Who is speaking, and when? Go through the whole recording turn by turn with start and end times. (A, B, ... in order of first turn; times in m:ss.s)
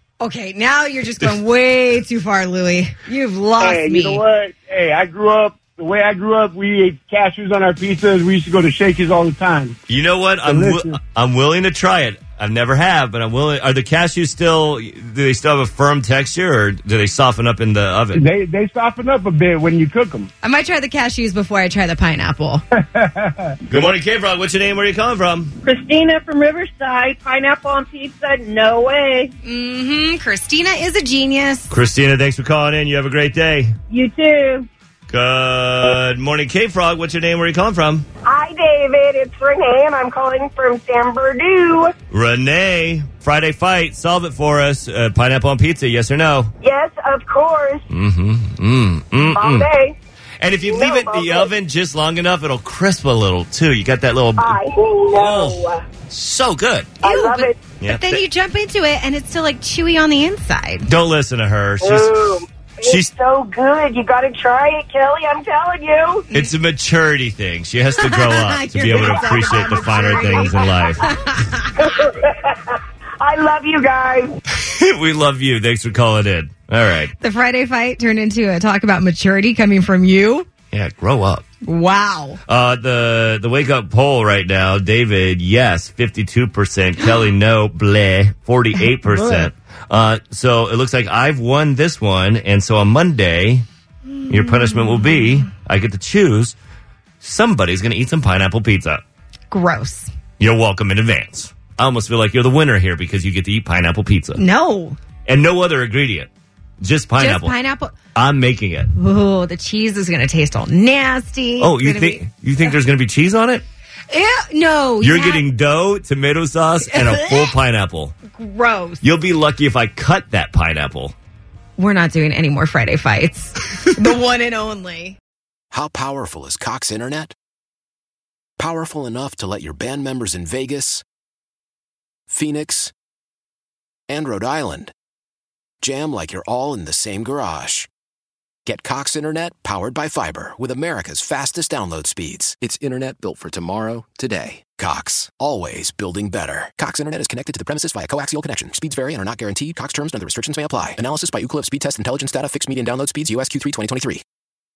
0:00.2-0:04.2 A
0:03.6-0:09.7 B
0:09.9-0:18.3 C
0:10.4-0:11.0 B
0:18.1-0:20.3 B
0:20.4-0:22.6 A
0:22.8-0:23.5 B
0:23.7-0:25.5 C
0:25.6-0:29.3 D
0:29.4-0:31.7 A
0:31.7-0:33.8 C
0:33.9-0:34.7 D
0:35.1-0:38.0 C
0:38.2-0:41.9 E
0:42.1-0:46.5 C
0:46.6-0:47.8 E
0:47.9-0:49.7 C
0:49.2-0:50.0 E
0:50.4-0:57.0 C
0:50.6-0:51.5 E
0:54.3-0:55.8 E
0:57.0-0:57.6 E
0:57.0-1:00.9 A
0:57.8-0:58.2 C
1:00.9-1:02.3 C
1:01.8-1:06.2 E
1:02.8-1:03.1 C
1:06.3-1:11.0 C
1:08.0-1:11.7 A
1:08.9-1:10.9 E
1:11.8-1:14.4 E
1:14.5-1:17.1 C
1:17.2-1:20.5 A
1:20.7-1:21.5 C
1:21.6-1:22.4 A
1:22.5-1:33.6 C
1:29.1-1:29.5 A
1:34.3-1:36.6 C
1:37.2-1:39.0 C
1:39.5-1:40.1 A
1:40.4-1:44.4 C
1:44.4-1:45.0 A
1:45.3-1:46.3 C
1:46.8-1:47.5 C
1:47.2-1:47.9 A
1:48.1-1:48.9 C
1:49.0-1:52.2 A
1:51.6-1:53.6 C
1:54.1-1:55.4 A
1:55.0-1:58.2 C
1:56.8-1:57.6 A
1:58.3-1:59.0 A
1:59.0-2:01.1 C
2:01.8-2:05.2 A
2:05.7-2:07.3 F
2:08.6-2:11.0 F
2:12.3-2:12.9 F
2:14.1-2:14.9 F
2:15.8-2:17.9 F
2:18.6-2:34.2 F